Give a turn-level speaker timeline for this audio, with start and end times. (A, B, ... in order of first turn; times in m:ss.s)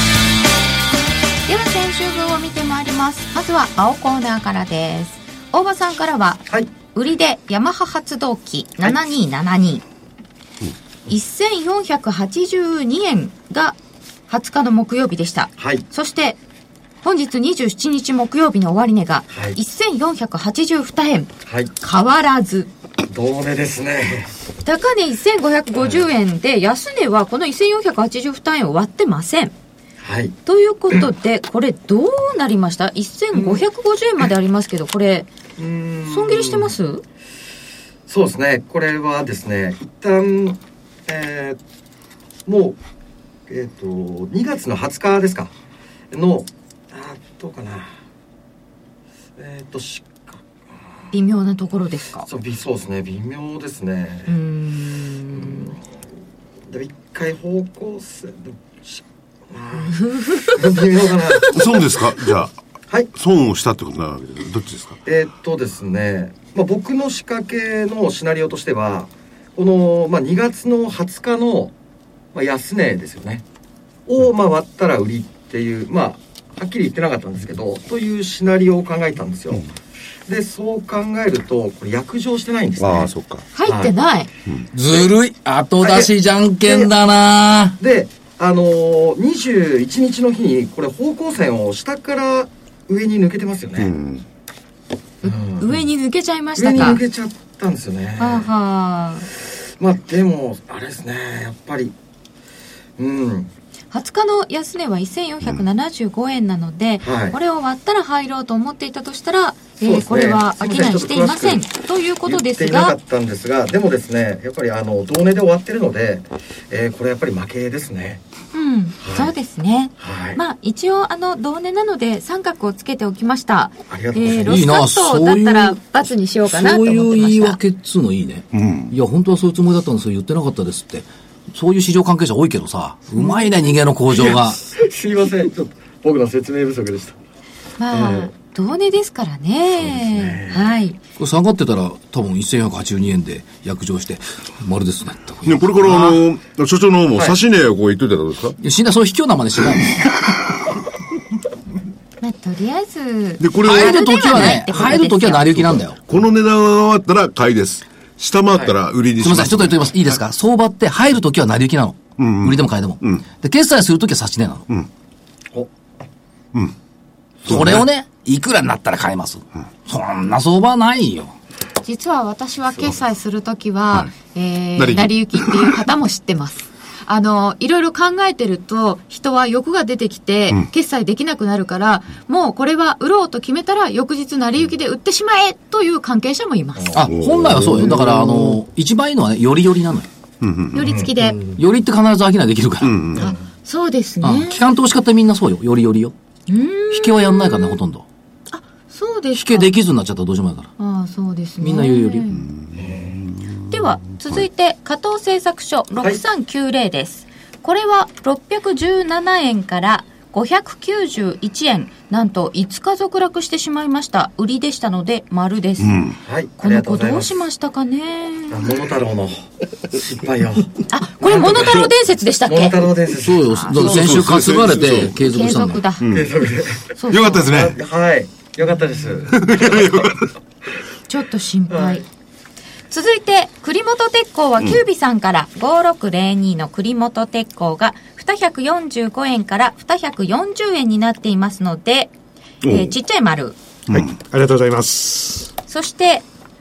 0:01.5-0:09.8 A
0:11.1-0:13.8 A
0:14.3-0:16.4 A
0:15.6-0:15.8 B
0:17.0-0:21.3 A
0:19.3-0:19.6 B
0:21.8-0:22.7 A
0:23.1-0:24.3 B
0:24.6-0:29.5 A
0:30.0-0:30.4 B
0:30.5-0:35.3 A
0:33.3-0:33.6 B
0:35.6-0:36.7 B
0:36.1-0:37.0 A
0:38.1-0:41.6 B
0:42.5-0:42.8 B
0:43.5-0:45.5 B
0:46.1-0:47.9 B
0:49.4-0:50.4 B
0:51.1-0:52.3 A
0:52.3-0:54.4 B
0:54.3-0:55.7 A
0:55.3-0:55.8 B
0:56.7-1:01.8 B
0:59.8-1:00.6 A
1:01.5-1:02.6 C
1:03.1-1:05.0 C
1:05.1-1:11.7 B
1:12.3-1:13.4 B
1:14.1-1:19.7 B
1:20.3-1:23.1 B
1:22.8-1:23.5 C
1:23.6-1:24.3 A
1:23.6-1:23.9 B
1:24.7-1:27.8 D
1:25.8-1:26.1 B
1:26.6-1:26.9 B
1:27.8-1:33.9 B
1:33.8-1:34.2 C
1:35.2-1:37.0 A
1:35.2-1:35.7 B
1:36.6-1:38.5 B
1:38.2-1:39.3 A
1:39.8-1:42.0 B
1:43.0-1:43.5 B
1:43.9-1:53.0 A
1:47.0-1:47.4 B
1:49.8-1:51.6 B
1:52.3-1:58.2 B
1:58.5-2:07.6 A
1:59.0-1:59.3 B
2:00.0-2:00.4 B
2:03.9-2:04.7 B
2:04.5-2:05.8 D
2:06.5-2:14.6 D
2:08.5-2:08.9 C
2:14.3-2:17.2 B
2:17.8-2:21.0 A
2:17.9-2:18.3 B
2:19.8-2:20.7 B
2:21.2-2:26.2 D
2:25.4-2:28.6 C
2:28.6-2:30.0 D
2:32.2-2:35.8 A
2:33.4-2:34.9 C
2:33.6-2:36.0 D
2:36.0-2:39.9 C
2:39.2-2:44.7 D
2:42.2-2:43.2 C
2:47.4-2:47.9 C
2:47.5-2:51.3 D
2:51.8-3:07.0 A
2:54.8-2:55.7 C
3:06.8-3:07.1 B
3:07.0-3:10.1 D
3:07.0-3:08.0 C
3:08.0-3:08.4 E
3:10.4-3:10.9 C
3:10.7-3:11.6 A
3:10.8-3:11.2 B
3:11.6-3:13.0 D
3:12.8-3:13.3 C
3:13.2-3:14.6 A
3:14.2-3:16.1 D
3:16.5-3:17.8 A
3:16.9-3:18.0 D
3:18.5-3:19.7 A
3:19.4-3:20.7 D
3:20.8-3:22.5 A
3:21.6-3:22.3 D
3:22.3-3:23.3 C
3:22.8-3:23.2 B
3:23.7-3:38.8 A
3:35.8-3:36.2 C
3:36.3-3:37.4 B
3:38.5-3:41.9 B
3:40.9-3:43.8 A
3:42.4-3:43.7 B
3:43.2-3:45.8 D
3:43.7-3:45.2 C
3:45.2-3:46.1 A
3:46.0-3:46.3 C
3:46.1-3:50.2 B
3:47.0-3:47.5 A
3:47.1-3:47.8 C
3:49.3-3:50.3 C
3:51.1-3:52.0 A
3:51.7-3:52.0 B
3:52.9-4:02.1 A
4:02.6-4:03.0 C
4:02.6-4:03.6 A
4:03.9-4:05.5 E
4:05.7-4:06.2 A